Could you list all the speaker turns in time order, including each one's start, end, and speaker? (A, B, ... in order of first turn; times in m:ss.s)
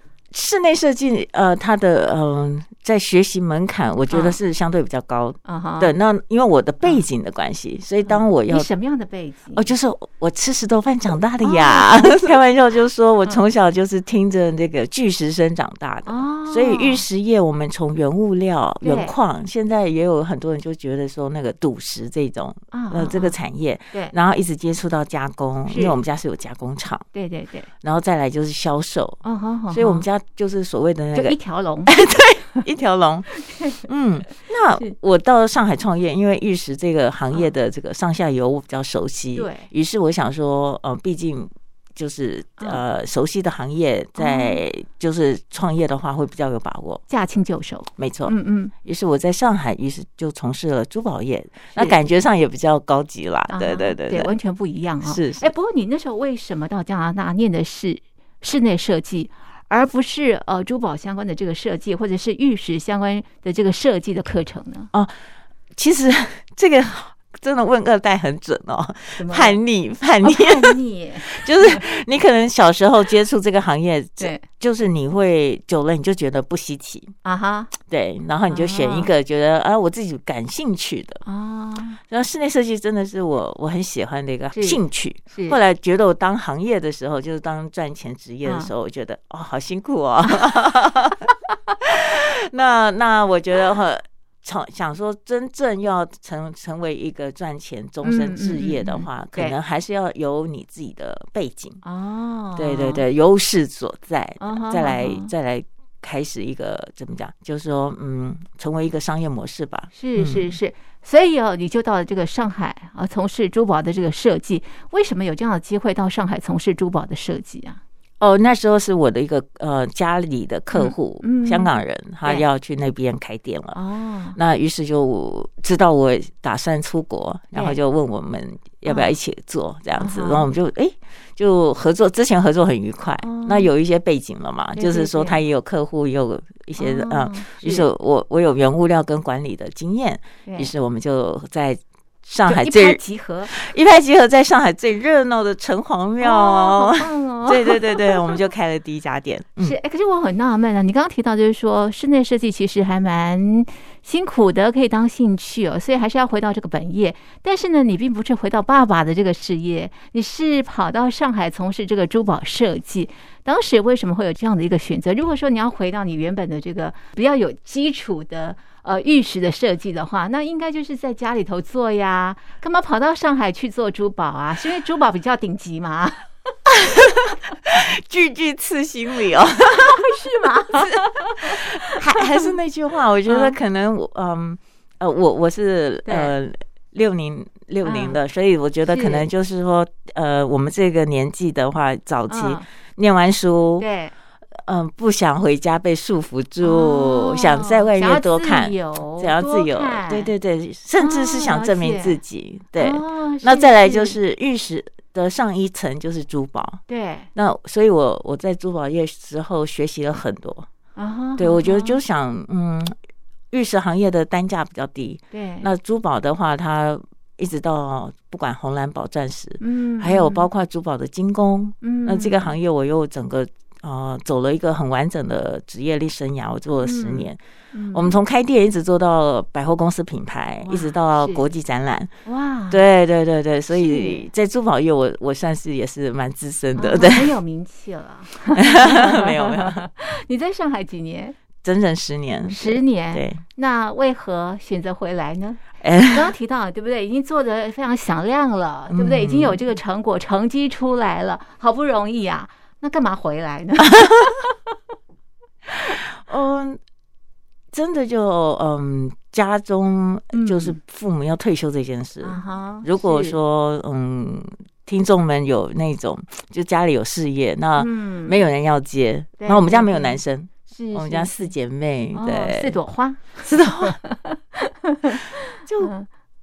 0:00.3-0:08.7 A
0:04.1-0:04.4 B
0:05.4-0:06.0 B
0:08.0-0:09.7 B
0:09.5-0:27.0 A
0:11.4-0:12.4 B
0:16.1-0:17.0 B
0:18.8-0:19.1 B
0:22.7-0:23.4 B
0:25.7-0:26.0 B
0:27.1-0:27.7 B
0:27.8-0:31.4 A
0:29.2-0:30.0 B
0:31.1-0:32.0 B
0:31.9-0:33.3 A
0:33.5-0:33.9 B
0:33.8-0:47.0 A
0:39.4-0:39.7 B
0:44.2-0:44.6 B
0:47.1-0:48.7 B
0:48.0-0:54.3 A
0:53.5-1:04.9 B
0:55.0-0:55.5 A
1:05.8-1:17.1 A
1:09.2-1:09.6 B
1:10.2-1:11.8 B
1:14.2-1:14.4 B
1:17.2-1:17.7 B
1:17.8-1:21.2 A
1:18.5-1:19.1 B
1:21.2-1:22.0 B
1:22.1-1:41.8 A
1:24.5-1:24.8 B
1:25.3-1:25.6 B
1:28.4-1:28.7 B
1:38.0-1:39.6 B
1:41.8-1:43.0 B
1:42.6-1:50.5 A
1:44.4-1:45.3 B
1:49.9-1:57.8 B
1:58.2-2:03.8 A
2:00.7-2:01.7 B
2:03.8-2:04.4 B
2:04.4-2:29.8 A
2:08.9-2:09.1 B
2:10.0-2:10.5 B
2:13.2-2:13.7 B
2:14.8-2:15.4 B
2:16.8-2:17.9 B
2:20.5-2:20.7 B
2:22.5-2:23.5 B
2:26.2-2:28.4 B
2:29.6-2:56.3 B
2:56.7-3:13.9 A
2:59.6-3:02.5 B
3:03.3-3:03.6 B
3:06.0-3:06.3 B
3:07.8-3:08.2 B
3:08.9-3:09.3 B
3:12.3-3:12.7 B
3:13.8-3:14.1 B
3:14.6-3:26.8 A
3:16.6-3:20.3 B
3:21.0-3:22.2 B
3:22.8-3:24.2 B
3:26.9-3:27.3 B
3:27.4-3:30.7 A
3:31.0-3:32.0 B
3:31.4-3:32.9 A
3:33.5-3:47.4 A
3:35.3-3:35.7 B
3:39.6-3:40.5 B
3:41.8-3:42.5 B
3:46.8-3:48.2 B
3:47.9-3:52.1 A
3:50.7-3:51.4 B
3:52.3-3:52.8 B
3:52.7-3:57.4 A
3:53.7-3:54.3 B
3:56.8-4:01.4 B
3:58.6-3:59.9 A
4:01.6-4:03.4 A
4:02.5-4:14.6 B
4:05.8-4:06.3 A
4:08.9-4:09.6 A
4:14.0-4:14.3 A
4:16.0-4:16.8 A
4:17.7-4:32.8 A
4:20.3-4:20.8 B
4:22.2-4:23.4 B
4:27.8-4:28.4 B
4:29.4-4:31.5 B
4:32.1-4:36.1 B
4:33.4-4:34.0 A
4:35.7-4:35.9 A